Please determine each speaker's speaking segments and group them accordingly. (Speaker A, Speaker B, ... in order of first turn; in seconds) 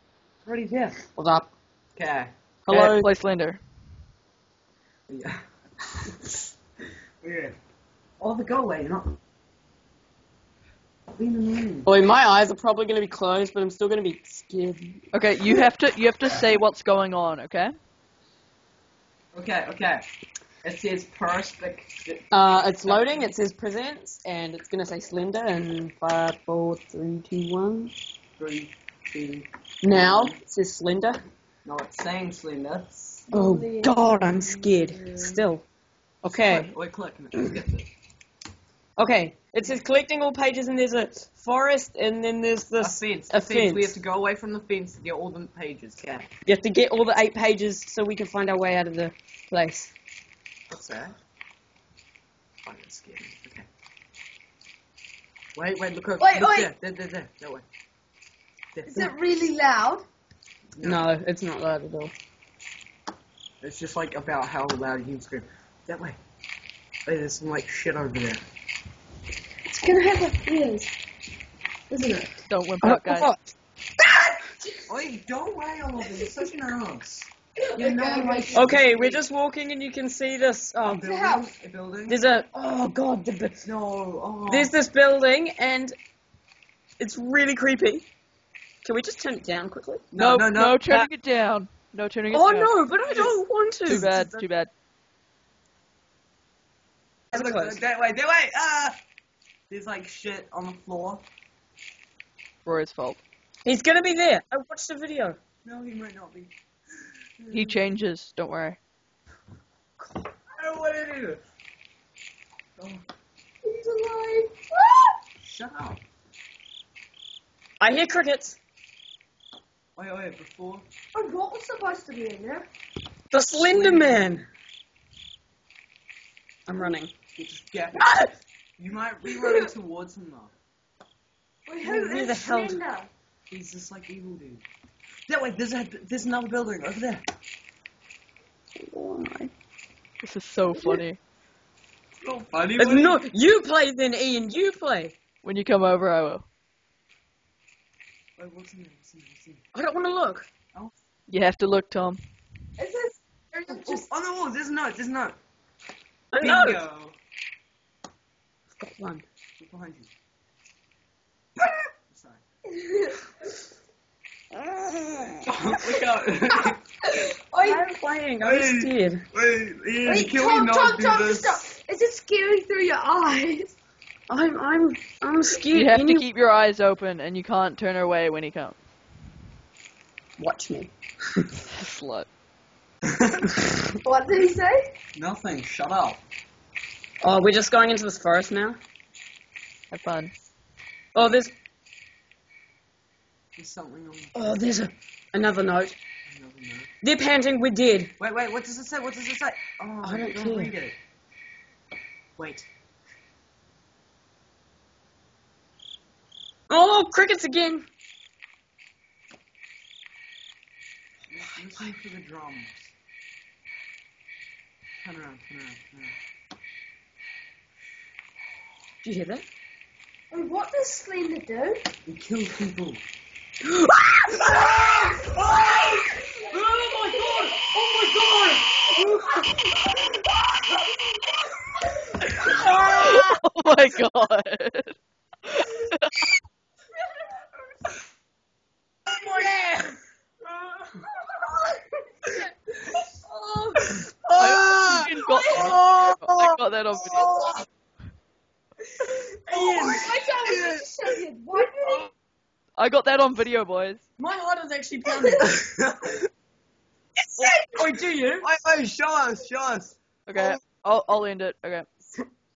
Speaker A: 0.5-1.0, 2.0-2.3, 5.1-5.4, 7.2-7.6, 8.2-9.2, 11.2-11.9, 19.3-20.0, 20.6-23.3, 28.4-30.4, 31.6-33.3, 36.3-37.9, 42.8-46.3, 50.7-51.1, 52.6-53.7, 55.5-57.6, 58.8-59.1, 60.8-61.1, 63.6-66.2, 67.1-68.5, 74.9-79.2, 80.8-82.2, 83.6-84.7, 90.1-90.9, 93.9-94.4, 97.3-99.0, 99.7-101.2, 105.6-106.5, 107.4-107.8, 110.6-111.4, 112.8-113.0, 115.4-116.0, 120.0-120.8, 123.5-124.4, 127.4-128.2, 128.8-130.5, 133.5-134.7, 135.3-137.2, 142.2-143.2, 148.4-149.6, 153.7-155.4, 156.4-157.2, 159.6-160.1, 162.1-162.4, 165.5-166.8, 168.4-171.7, 185.2-186.2, 193.6-194.4, 196.3-196.9, 198.2-201.0, 202.4-202.7, 211.3-212.9, 215.0-216.2, 222.1-223.0, 224.5-227.6, 232.4-233.3, 239.1-239.6, 243.9-246.6, 247.1-247.6, 249.5-251.2, 255.4-256.3, 257.4-260.6
Speaker B: 1.2-1.5, 2.7-3.1, 11.8-15.0, 22.3-27.9, 29.8-31.2, 33.3-35.6, 36.2-36.7, 39.0-44.0, 46.5-49.9, 60.8-62.1, 72.8-73.5, 78.5-81.1, 82.1-83.6, 84.5-86.0, 87.0-88.1, 88.8-90.1, 92.3-94.2, 97.3-97.8, 103.7-105.4, 117.8-118.6, 123.3-124.5, 126.7-127.1, 128.0-128.3, 131.8-132.8, 138.8-139.5, 142.8-145.1, 149.8-150.5, 156.3-156.8, 158.8-159.2, 164.6-165.4, 167.6-169.2, 174.3-176.3, 180.4-181.5, 187.2-188.8, 191.2-191.5, 194.3-196.0, 197.0-198.1, 200.0-200.7, 206.7-207.9, 219.0-219.5, 232.5-232.8, 249.5-250.0, 254.2-255.4, 257.7-258.5
Speaker C: 2.7-3.6, 15.1-17.7, 72.5-73.3, 90.2-94.7, 102.7-103.2, 107.5-108.8, 140.2-141.2, 145.4-146.4, 151.3-152.2, 175.7-178.8, 181.7-182.3, 189.9-190.3, 232.8-236.3, 244.4-247.3, 252.8-254.0, 260.3-261.9
Speaker D: 33.3-35.4, 56.2-56.7, 58.9-60.1, 69.7-70.9, 71.9-72.3, 77.6-78.7, 81.0-81.5, 113.7-115.2, 121.1-122.7, 129.3-129.7, 131.7-133.1, 152.8-154.1, 162.7-163.2, 166.7-167.9, 170.1-173.8, 184.0-184.9, 220.3-221.9, 225.0-225.8, 226.4-230.2, 241.2-241.8, 242.3-243.9, 245.2-245.7, 249.7-252.1